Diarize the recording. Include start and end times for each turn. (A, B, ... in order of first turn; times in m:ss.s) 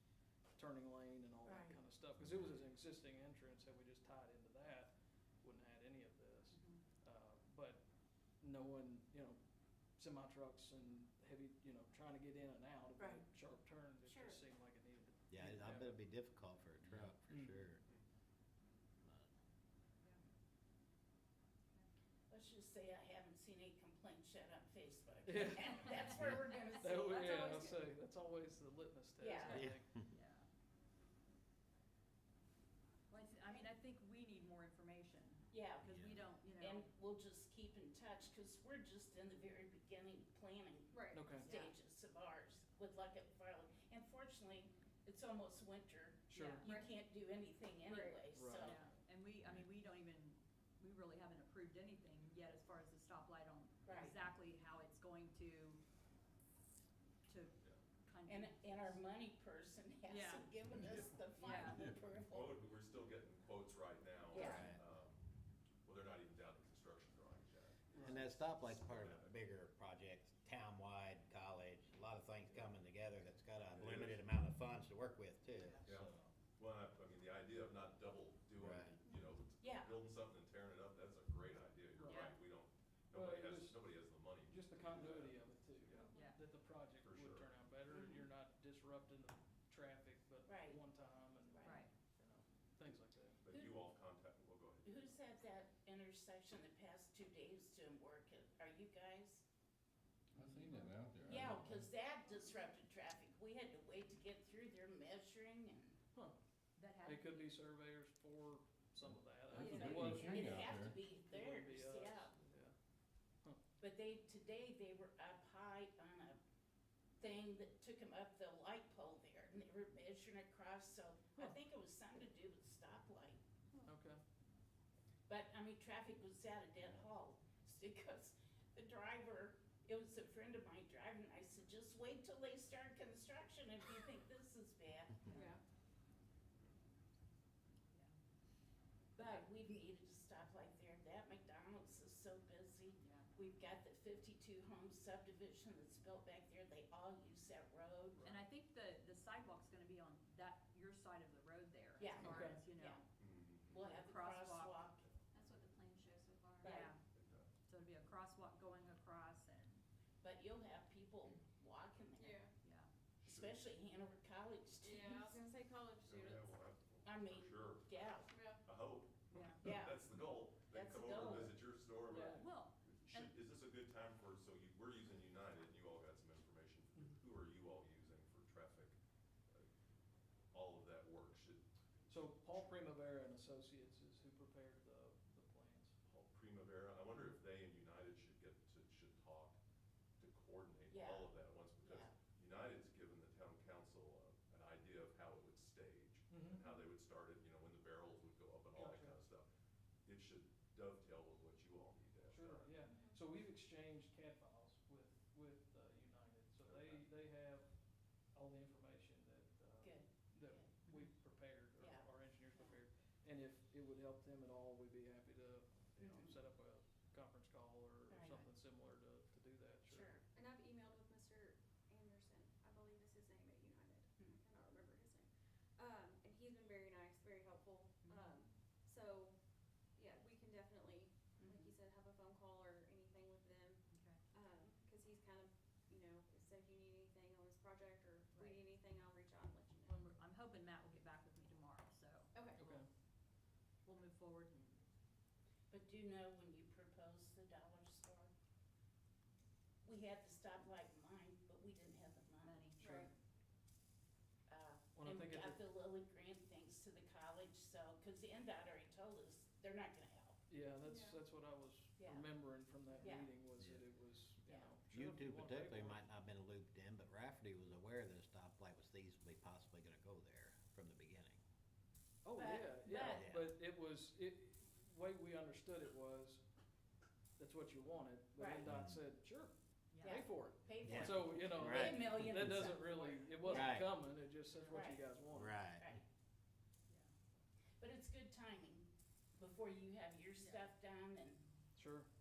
0:00.6-0:04.9 A
0:01.4-0:01.8 B
0:05.4-0:07.8 A
0:06.5-0:06.8 C
0:08.4-0:09.4 A
0:10.0-0:16.0 A
0:13.0-0:13.2 B
0:14.0-0:14.4 B
0:15.3-0:17.8 D
0:17.3-0:17.6 A
0:19.0-0:19.3 D
0:22.3-0:27.4 B
0:25.2-0:25.9 A
0:25.8-0:27.8 C
0:26.7-0:29.9 A
0:29.2-0:29.7 B
0:29.3-0:30.5 C
0:29.5-0:30.1 D
0:33.1-0:36.9 C
0:35.5-0:48.8 B
0:35.9-0:36.2 D
0:40.9-0:41.3 E
0:41.1-0:41.5 A
0:41.4-0:41.7 C
0:46.3-0:46.6 A
0:46.3-0:46.7 C
0:46.6-0:47.0 E
0:47.9-0:55.8 C
0:47.9-0:48.3 E
0:48.3-0:48.8 A
0:53.8-0:54.2 B
0:57.2-0:59.0 C
0:58.3-1:02.6 B
1:00.0-1:00.6 C
1:01.4-1:01.8 C
1:01.6-1:02.1 F
1:02.2-1:05.2 G
1:04.3-1:04.7 B
1:04.3-1:04.6 C
1:04.4-1:04.8 D
1:05.8-1:09.3 G
1:08.0-1:15.9 D
1:13.7-1:14.2 G
1:15.8-1:26.2 G
1:18.6-1:19.0 D
1:19.6-1:20.0 B
1:22.0-1:22.3 A
1:22.0-1:22.4 C
1:23.1-1:23.8 A
1:24.4-1:33.4 A
1:26.1-1:26.4 C
1:27.0-1:27.6 G
1:27.9-1:28.2 B
1:30.5-1:30.8 B
1:31.4-1:31.8 B
1:31.6-1:31.9 C
1:33.4-1:35.1 G
1:33.5-1:33.8 B
1:34.8-1:39.4 B
1:40.3-1:41.9 F
1:40.4-1:40.8 A
1:41.2-1:46.0 B
1:46.8-1:47.5 C
1:47.0-1:50.6 A
1:49.0-1:51.0 F
1:49.5-1:49.9 E
1:49.6-1:52.3 B
1:51.1-1:52.7 A
1:53.8-1:56.4 B
1:57.2-2:03.4 B
2:03.8-2:04.2 A
2:05.3-2:15.4 B
2:15.3-2:15.6 C
2:15.3-2:15.6 E
2:19.2-2:28.3 B
2:23.0-2:23.3 C
2:28.2-2:33.0 C
2:32.0-2:33.0 B
2:32.2-2:32.6 A
2:33.2-2:34.0 G
2:33.7-2:35.0 B
2:33.8-2:34.8 C
2:34.9-2:35.2 G
2:36.6-2:36.9 B
2:36.6-2:37.0 C
2:37.1-2:37.5 G
2:37.7-2:39.8 C
2:40.2-2:42.5 B
2:42.2-2:42.5 E
2:42.6-2:42.9 C
2:43.2-2:45.4 B
2:43.2-2:43.6 G
2:44.8-2:46.4 E
2:46.0-2:59.0 G
2:47.0-2:48.3 B
2:48.3-2:48.6 E
2:49.3-2:49.7 C
2:49.6-2:50.0 B
2:50.7-2:51.6 B
2:52.1-2:52.4 A
2:52.1-2:53.4 C
3:00.5-3:01.6 G
3:02.1-3:06.0 A
3:06.0-3:09.6 G
3:10.2-3:19.5 G
3:10.9-3:12.1 B
3:16.3-3:16.6 A
3:18.7-3:19.2 A
3:20.0-3:22.8 G
3:22.3-3:27.7 A
3:22.9-3:23.2 E
3:26.6-3:27.0 G
3:28.3-3:40.1 A
3:29.8-3:30.8 B
3:30.9-3:31.1 C
3:31.8-3:32.8 B
3:36.0-3:36.4 B
3:38.1-3:38.5 B
3:39.9-3:40.2 B
3:40.3-3:49.4 E
3:49.9-3:53.8 E
3:51.4-3:51.7 B
3:53.9-3:54.2 C
3:54.3-4:00.0 E
3:59.9-4:02.8 C
4:02.3-4:02.6 E
4:02.6-4:02.9 A
4:03.8-4:04.8 C
4:05.7-4:08.3 B
4:09.8-4:12.6 B
4:12.4-4:13.0 C
4:12.8-4:13.1 E
4:14.5-4:20.4 B
4:14.9-4:15.6 A
4:20.5-4:26.0 A
4:20.8-4:21.2 E
4:22.0-4:22.3 B
4:23.0-4:23.3 B
4:23.6-4:23.8 D
4:24.4-4:24.7 B
4:24.9-4:31.4 D
4:32.2-4:36.4 A
4:32.4-4:33.2 B
4:32.9-4:33.5 D
4:37.4-4:45.6 A
4:38.4-4:38.6 B
4:38.6-4:39.0 D
4:39.9-4:40.2 C
4:40.0-4:43.8 B
4:40.8-4:42.8 D
4:43.4-4:43.9 D
4:44.5-4:44.8 C
4:44.7-4:45.0 B
4:45.3-4:45.9 D
4:45.8-4:46.0 B
4:47.8-4:48.9 B
4:49.4-4:51.4 B
4:50.4-4:50.7 C
4:51.7-4:52.1 A